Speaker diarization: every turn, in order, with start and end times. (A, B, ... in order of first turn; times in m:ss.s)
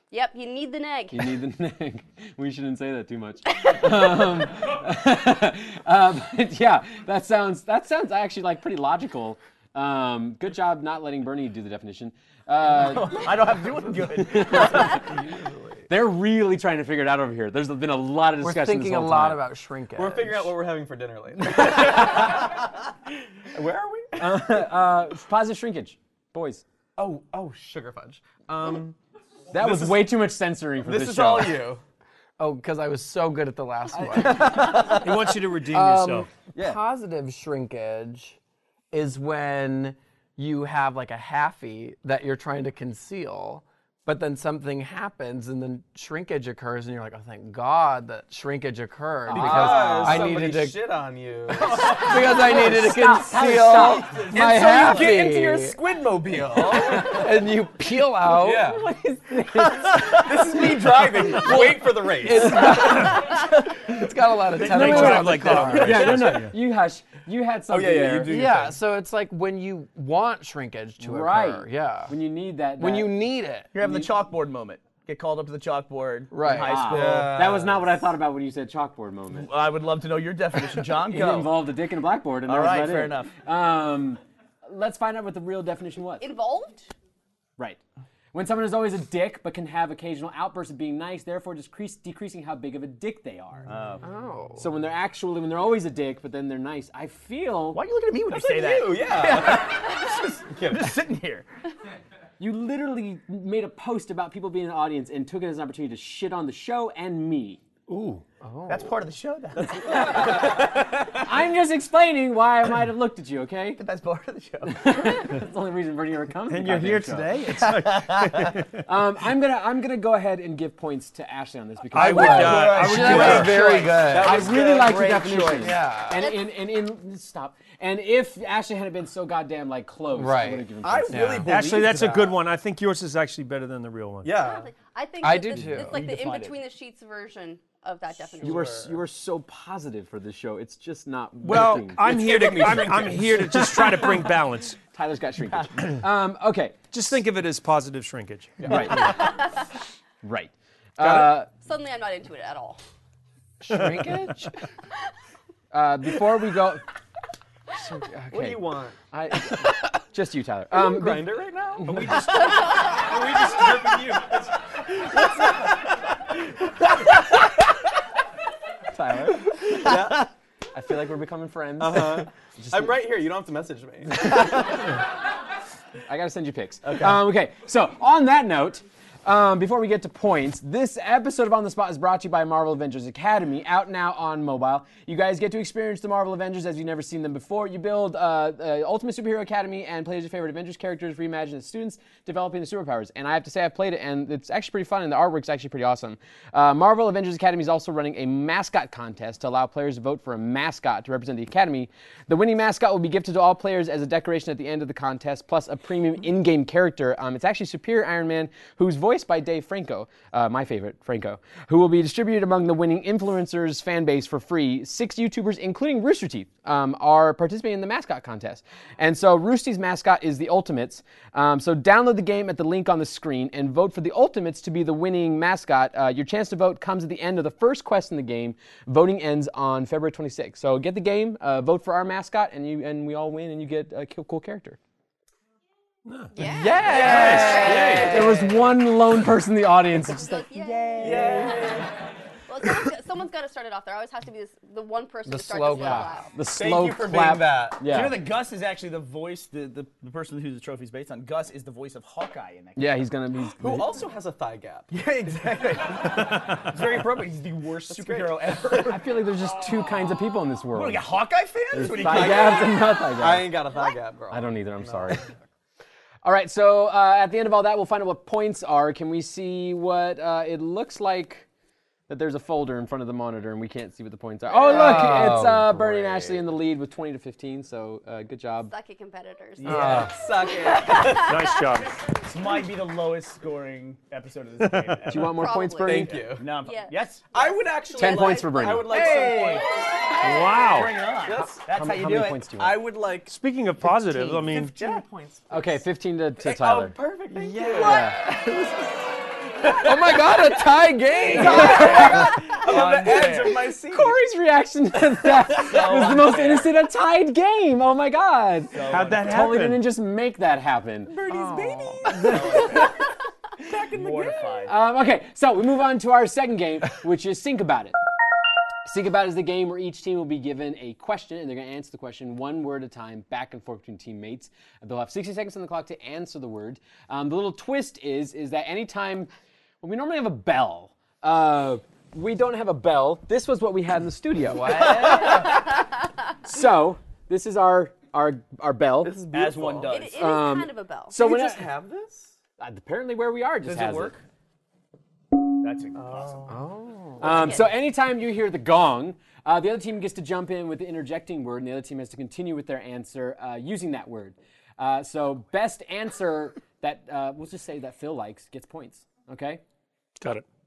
0:00.1-0:01.4 A
0:01.1-0:13.3 B
0:12.7-0:15.1 C
0:14.2-0:15.0 B
0:14.5-0:15.8 D
0:15.9-0:19.4 B
0:18.4-0:20.6 D
0:20.0-0:22.9 E
0:21.7-0:22.0 B
0:23.5-0:24.6 E
0:24.2-0:26.6 B
0:27.0-0:29.0 E
0:29.5-0:31.7 B
0:29.5-0:30.0 E
0:30.8-0:31.8 E
0:32.4-0:35.1 D
0:33.9-0:35.1 E
0:34.6-0:36.3 F
0:35.7-0:38.4 D
0:36.6-0:36.8 E
0:38.9-0:50.8 D
0:49.3-0:50.4 B
0:49.3-0:52.7 E
0:51.5-0:55.8 D
0:51.7-0:54.4 B
0:54.1-0:57.4 E
0:54.4-0:55.2 C
0:56.8-0:58.8 D
0:57.0-0:57.2 B
0:58.2-0:58.9 E
0:58.5-1:00.3 B
0:59.8-1:03.2 E
0:59.9-1:06.4 D
1:04.5-1:06.6 F
1:04.6-1:08.4 B
1:07.7-1:08.8 E
1:08.3-1:12.1 D
1:11.0-1:13.1 B
1:12.8-1:13.7 D
1:13.7-1:17.3 C
1:13.8-1:14.1 B
1:16.3-1:16.8 D
1:16.5-1:19.5 B
1:16.9-1:18.0 E
1:19.4-1:21.6 C
1:21.0-1:26.3 B
1:22.5-1:23.3 C
1:26.2-1:26.9 A
1:28.3-1:33.7 B
1:33.7-1:34.0 C
1:34.0-1:34.7 D
1:34.6-1:37.8 B
1:37.7-1:41.5 C
1:38.3-1:41.0 E
1:42.4-1:47.6 B
1:47.9-1:48.2 F
1:48.4-1:48.9 D
1:48.7-1:50.6 C
1:49.6-1:53.8 B
1:53.8-1:55.2 C
1:54.7-1:57.4 B
1:56.5-1:58.7 F
1:58.8-2:03.6 B
2:01.9-2:03.6 F
2:02.0-2:06.2 D
2:02.2-2:06.0 E
2:04.2-2:11.5 B
2:06.2-2:06.4 A
2:10.1-2:11.6 D
2:10.8-2:12.4 E
2:11.4-2:14.4 F
2:14.2-2:14.7 E
2:14.3-2:18.9 A
2:15.2-2:15.9 D
2:15.7-2:16.6 C
2:18.4-2:18.9 E
2:18.4-2:22.9 B
2:21.4-2:24.8 F
2:22.0-2:24.0 E
2:24.9-2:26.9 B
2:26.9-2:28.8 F
2:28.6-2:29.4 B
2:29.0-2:29.7 A
2:30.2-2:31.5 B
2:31.0-2:31.3 E
2:31.5-2:32.8 A
2:33.6-2:34.6 D
2:33.7-2:34.3 F
2:35.7-2:36.8 B
2:38.0-2:41.4 B
2:38.3-2:39.0 E
2:40.7-2:42.4 E
2:41.8-2:44.5 F
2:43.5-2:44.4 E
2:45.0-2:45.7 E
2:48.9-2:49.9 B
2:49.7-2:50.3 E
2:50.7-2:53.0 B
2:51.8-2:54.6 E
2:54.2-2:54.6 B
2:56.1-3:54.8 B
2:56.8-2:57.3 E
3:56.1-3:56.3 F
3:56.3-3:58.7 A
3:56.5-4:00.5 B
3:56.6-3:58.3 D
3:56.9-3:58.1 F
3:56.9-3:57.5 E
4:00.0-4:01.8 A
4:01.0-4:01.9 E
4:01.0-4:01.7 C
4:02.5-4:06.3 A
4:05.3-4:06.1 D
4:05.7-4:08.2 B
4:06.5-4:07.9 E
4:07.8-4:13.1 C
4:12.8-4:14.0 B
4:13.6-4:14.9 E
4:14.9-4:19.1 C
4:17.9-4:18.6 E
4:18.8-4:21.1 B
4:20.7-4:22.8 C
4:21.7-4:23.6 B
4:21.7-4:25.3 E
4:24.3-4:25.2 B
4:26.2-4:31.5 B
4:32.1-4:38.7 B
4:34.7-4:36.4 E
4:34.7-4:35.5 D
4:38.6-4:39.8 A
4:39.6-4:40.2 C
4:39.7-4:41.5 E
4:39.7-4:40.1 B
4:40.4-4:41.7 A
4:41.0-4:42.0 F
4:42.1-4:45.4 C
4:44.6-4:45.0 F
4:45.1-4:46.3 B
4:45.3-4:46.1 A
4:45.8-4:46.5 E
4:46.2-4:49.7 C
4:46.6-4:48.6 A
4:47.3-4:49.7 E
4:48.0-4:49.0 B
4:50.2-4:51.0 F
4:50.6-4:53.3 C
4:51.3-4:51.6 E
4:51.3-4:52.8 B
4:53.3-4:54.8 F
4:54.1-4:55.8 E
4:55.5-4:57.0 B
4:56.4-4:58.1 E
4:57.3-4:59.1 D
4:57.7-4:58.2 B
4:59.6-5:02.6 D
4:59.8-5:00.2 E
5:01.3-5:04.2 E
5:01.4-5:02.5 B
5:02.0-5:03.7 C
5:03.1-5:11.2 B
5:05.7-5:06.3 E
5:05.7-5:06.7 C
5:08.7-5:09.2 C
5:08.9-5:09.8 F
5:11.1-5:13.0 E
5:11.3-5:12.2 D
5:12.1-5:12.8 B
5:12.2-5:12.8 C
5:13.6-5:14.7 E
5:13.7-5:14.7 C
5:14.7-5:18.0 B
5:18.8-5:29.3 B
5:29.8-5:35.6 B
5:34.5-5:35.6 D
5:35.1-5:35.5 E
5:36.4-5:39.2 B
5:39.0-5:40.1 E
5:39.3-5:40.3 C
5:39.9-5:41.2 A
5:40.2-5:41.7 B
5:41.2-5:42.4 E
5:42.6-5:44.2 B
5:43.6-5:44.2 C
5:45.6-5:46.5 C
5:45.9-5:46.7 E
5:46.5-5:47.5 D
5:47.2-5:59.6 B
5:47.3-5:47.7 A
6:00.2-6:00.4 F